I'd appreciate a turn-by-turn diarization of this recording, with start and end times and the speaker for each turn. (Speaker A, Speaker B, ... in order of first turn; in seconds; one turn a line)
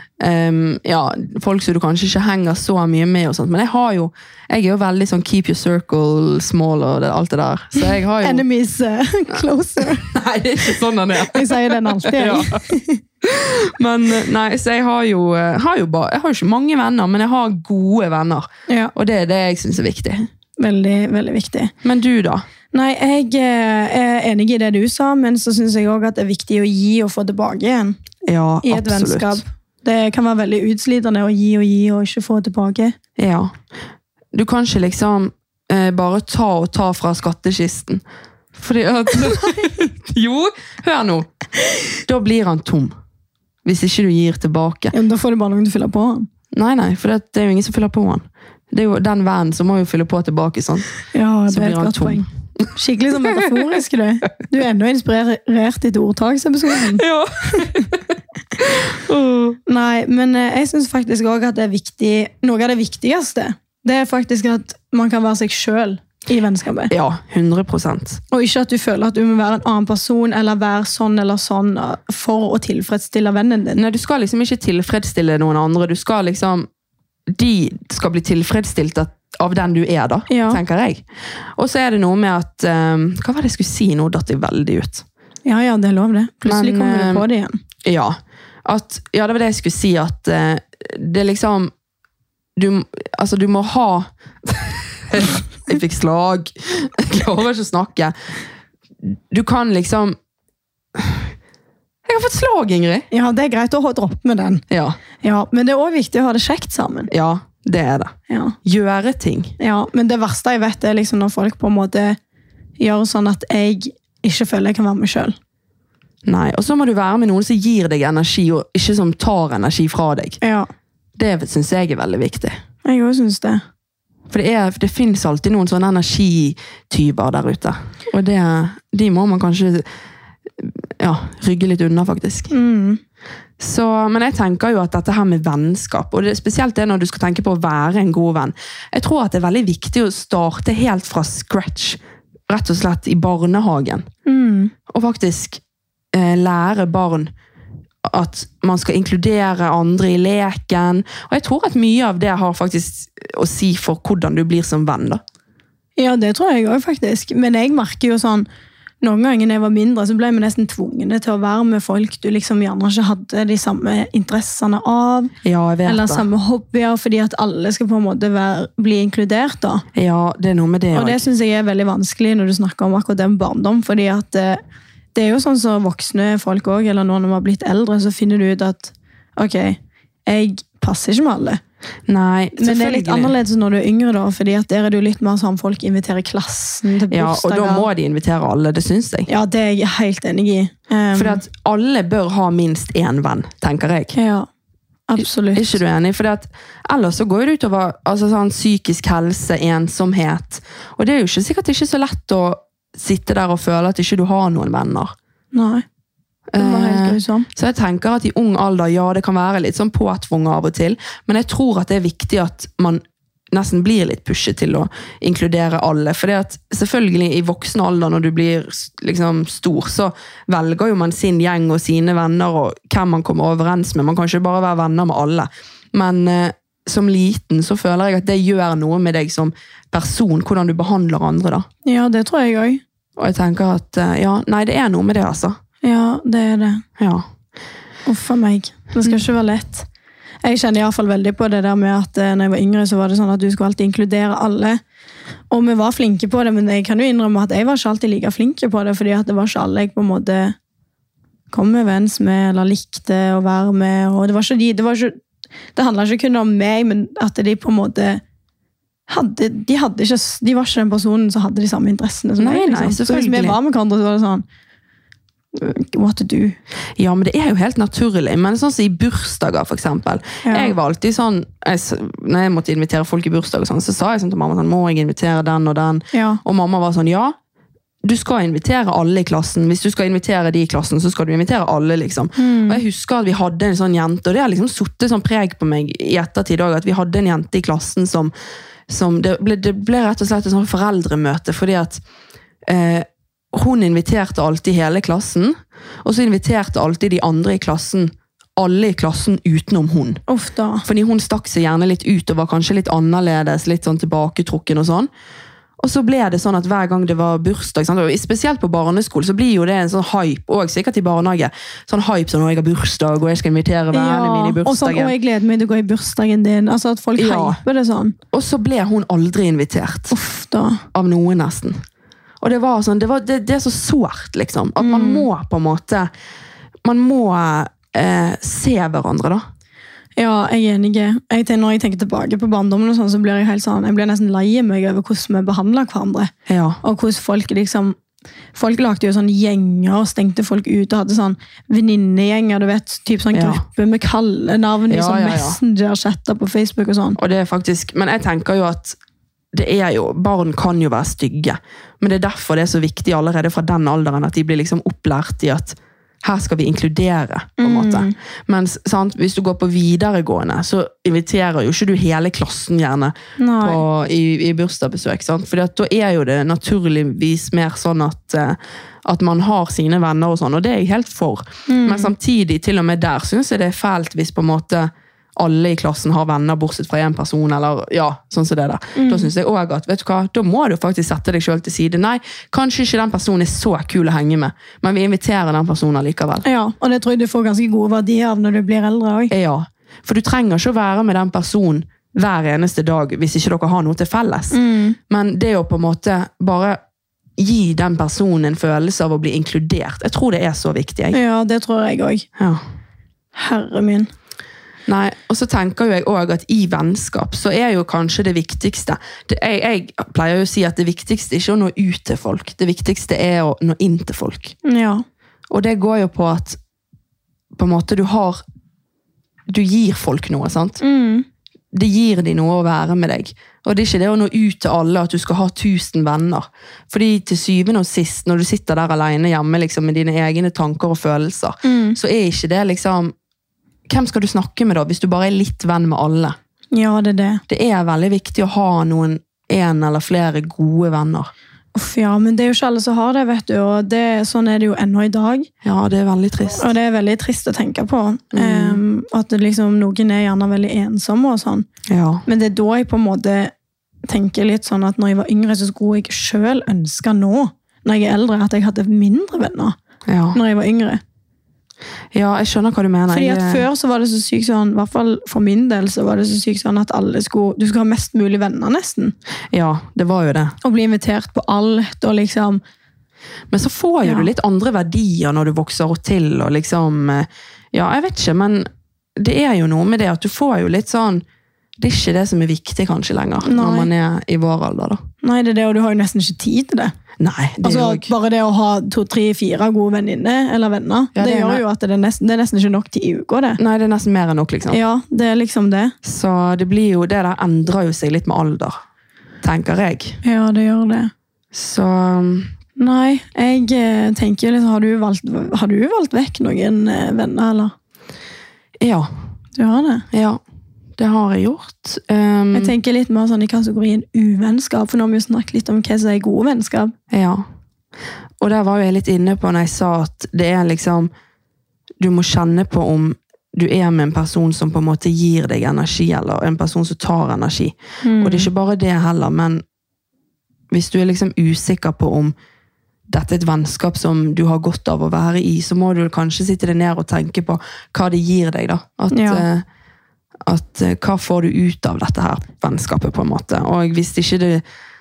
Speaker A: 0.2-8.4
Speaker B: 7.8-10.1
Speaker A: 9.3-12.6
Speaker B: 11.2-13.0
Speaker A: 13.2-20.3
Speaker B: 20.6-21.7
Speaker A: 21.8-22.4
Speaker B: 22.7-28.0
Speaker A: 28.3-29.4
Speaker B: 28.6-32.9
Speaker A: 33.2-33.5
Speaker A: 34.3-38.0
Speaker A: 38.5-41.3
Speaker A: 42.0-42.9
Speaker A: 43.6-44.9
Speaker B: 44.9-46.3
Speaker A: 46.5-50.9
Speaker B: 51.1-57.8
Speaker A: 51.5-52.2
Speaker A: 53.2-53.6
Speaker A: 56.7-58.0
Speaker A: 58.6-59.6
Speaker B: 59.7-66.9
Speaker A: 66.9-68.2
Speaker B: 68.3-73.8
Speaker A: 73.8-76.7
Speaker A: 77.3-81.0
Speaker B: 80.3-80.6
Speaker A: 81.6-85.0
Speaker B: 85.5-87.6
Speaker A: 86.5-87.2
Speaker A: 87.8-91.7
Speaker A: 92.6-98.1
Speaker A: 99.0-100.2
Speaker A: 101.0-101.3
Speaker A: 102.1-103.1
Speaker B: 103.1-104.6
Speaker A: 104.7-105.0
Speaker B: 105.2-107.1
Speaker A: 107.1-108.1
Speaker B: 108.3-108.6
Speaker A: 108.6-109.5
Speaker B: 109.6-112.2
Speaker B: 112.8-115.4
Speaker A: 116.2-120.4
Speaker B: 120.4-120.7
Speaker A: 121.2-122.6
Speaker B: 122.8-123.6
Speaker A: 124.3-129.9
Speaker A: 130.6-132.5
Speaker B: 132.5-133.0
Speaker A: 133.6-144.1
Speaker B: 144.3-144.7
Speaker A: 144.9-145.6
Speaker A: 146.1-147.3
Speaker A: 148.1-155.2
Speaker B: 156.0-158.5
Speaker B: 159.0-165.3
Speaker A: 165.4-166.3
Speaker B: 165.8-169.8
Speaker A: 169.9-171.2
Speaker B: 170.9-174.6
Speaker B: 175.2-181.6
Speaker A: 182.1-183.3
Speaker B: 182.6-187.9
Speaker A: 187.1-189.3
Speaker B: 189.3-191.4
Speaker A: 191.1-194.1
Speaker B: 194.1-194.5
Speaker B: 195.1-195.8
Speaker A: 195.2-205.1
Speaker B: 205.5-205.8
Speaker A: 206.5-213.0
Speaker B: 206.6-207.5
Speaker A: 213.5-231.7
Speaker B: 231.8-232.8
Speaker A: 233.2-235.6
Speaker B: 235.8-236.8
Speaker A: 237.0-237.3
Speaker B: 238.1-239.9
Speaker B: 240.4-244.8
Speaker B: 245.5-250.6
Speaker B: 251.5-255.2
Speaker B: 255.8-258.2
Speaker B: 259.1-264.4
Speaker A: 262.4-263.6
Speaker B: 265.5-266.6
Speaker A: 267.0-277.4
Speaker B: 270.4-270.7
Speaker B: 276.1-276.4
Speaker A: 278.0-288.3
Speaker B: 282.4-282.8
Speaker A: 288.9-292.0
Speaker A: 292.7-300.2
Speaker B: 300.3-300.9
Speaker A: 300.8-305.1
Speaker A: 305.8-315.1
Speaker B: 313.9-318.2
Speaker A: 317.2-317.6
Speaker A: 318.3-320.1
Speaker B: 320.1-320.8
Speaker A: 320.9-321.8
Speaker A: 322.4-326.1
Speaker B: 324.8-325.3
Speaker A: 326.8-329.4
Speaker B: 330.2-336.3
Speaker A: 336.5-336.8
Speaker B: 336.8-338.0
Speaker B: 338.6-347.2
Speaker A: 343.3-343.6
Speaker A: 344.9-345.6
Speaker A: 347.2-349.0
Speaker A: 349.5-386.4
Speaker B: 357.6-358.1
Speaker B: 363.4-363.8
Speaker B: 371.7-372.1
Speaker B: 378.9-379.3
Speaker B: 386.4-389.3
Speaker A: 389.3-394.6
Speaker B: 394.5-395.0
Speaker A: 395.1-396.8
Speaker A: 397.4-401.2
Speaker B: 401.1-402.3
Speaker A: 402.4-402.6
Speaker B: 403.4-404.1
Speaker A: 404.9-414.6
Speaker B: 414.6-415.0
Speaker A: 415.5-416.6
Speaker A: 417.6-418.4
Speaker A: 419.5-420.8
Speaker B: 420.8-421.3
Speaker A: 421.7-433.1
Speaker B: 431.6-432.0
Speaker A: 433.9-436.4
Speaker B: 436.7-437.4
Speaker A: 437.5-441.3
Speaker B: 441.8-445.5
Speaker A: 445.6-446.7
Speaker B: 446.5-451.7
Speaker A: 448.3-448.8
Speaker A: 451.9-452.2
Speaker B: 452.3-453.5
Speaker B: 454.1-459.8
Speaker A: 460.1-460.4
Speaker B: 460.3-461.0
Speaker A: 462.1-463.7
Speaker B: 463.1-469.1
Speaker A: 469.5-470.6
Speaker B: 470.6-472.6
Speaker A: 473.5-481.2
Speaker A: 481.8-485.0
Speaker B: 483.4-483.9
Speaker B: 485.2-486.9
Speaker A: 487.2-488.1
Speaker B: 487.6-493.6
Speaker A: 491.1-491.6
Speaker A: 493.6-494.8
Speaker B: 494.7-495.9
Speaker A: 496.0-498.8
Speaker A: 499.4-500.2
Speaker B: 500.2-501.1
Speaker A: 501.5-502.5
Speaker B: 502.8-507.7
Speaker A: 508.8-509.1
Speaker B: 509.6-510.1
Speaker A: 510.1-510.4
Speaker A: 511.0-512.7
Speaker B: 512.5-516.9
Speaker A: 517.1-517.4
Speaker A: 518.4-521.1
Speaker A: 522.0-529.6
Speaker B: 528.0-528.5
Speaker A: 530.7-532.3
Speaker A: 533.1-539.6
Speaker B: 539.1-539.4
Speaker A: 540.5-544.6